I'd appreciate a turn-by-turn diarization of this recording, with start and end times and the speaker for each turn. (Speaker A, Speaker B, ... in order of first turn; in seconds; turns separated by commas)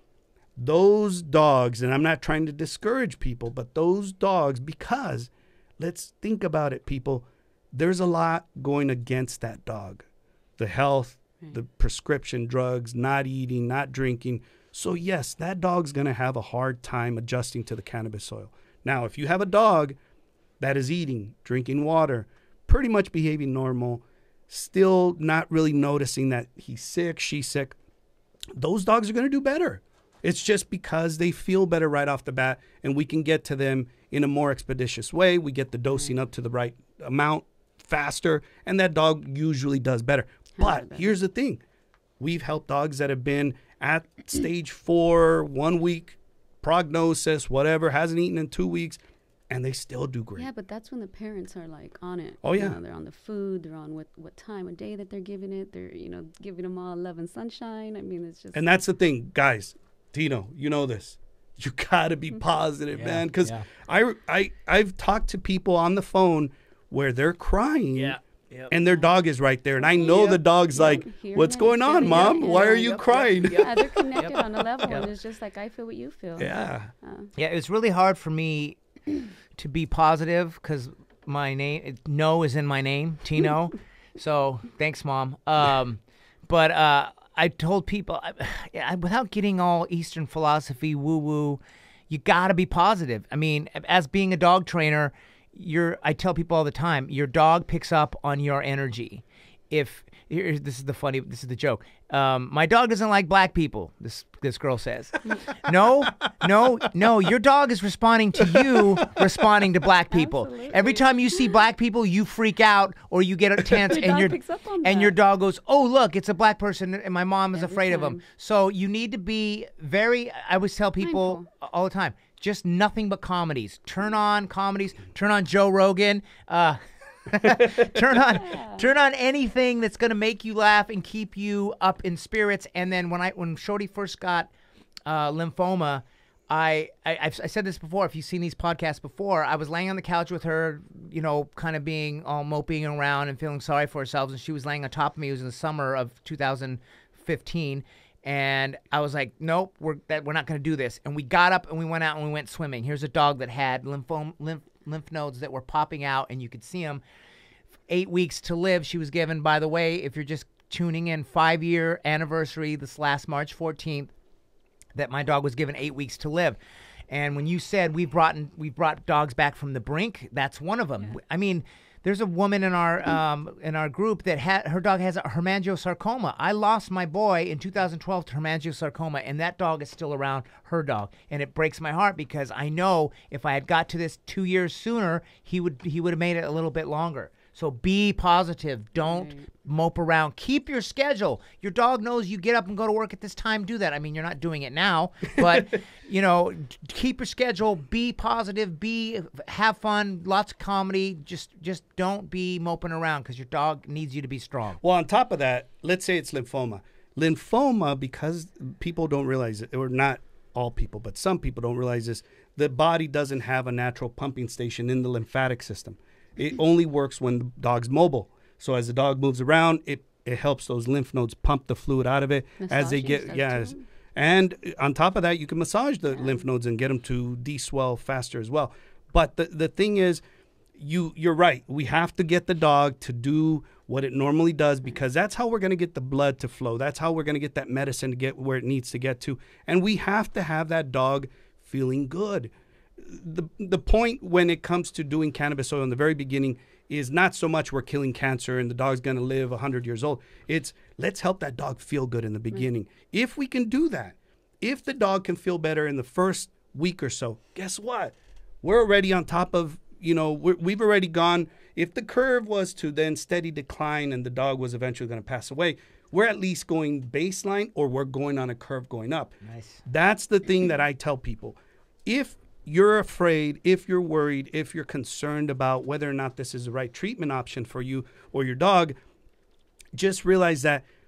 Speaker A: 0.6-10.1, Speaker A: 10.6-20.0, Speaker A: 20.6-27.8, Speaker A: 28.6-41.6, Speaker B: 40.6-41.1, Speaker A: 42.2-50.5, Speaker B: 50.4-58.6, Speaker A: 52.4-52.8, Speaker A: 58.5-68.2, Speaker C: 62.9-63.7, Speaker C: 67.9-68.8, Speaker A: 68.7-74.1, Speaker B: 69.8-73.0, Speaker C: 70.0-70.4, Speaker C: 72.0-75.1, Speaker B: 73.5-77.3, Speaker A: 76.4-76.9, Speaker C: 77.3-78.8, Speaker C: 79.6-134.5, Speaker B: 110.1-111.0, Speaker B: 113.8-115.1, Speaker B: 117.5-118.2, Speaker B: 121.0-121.5, Speaker B: 128.4-128.9, Speaker C: 135.1-157.0, Speaker C: 157.9-164.1, Speaker C: 164.9-166.6, Speaker C: 167.1-204.8, Speaker B: 189.0-189.5, Speaker A: 204.8-230.2, Speaker B: 222.6-223.8, Speaker A: 230.8-279.0, Speaker C: 269.4-269.8, Speaker A: 279.9-280.8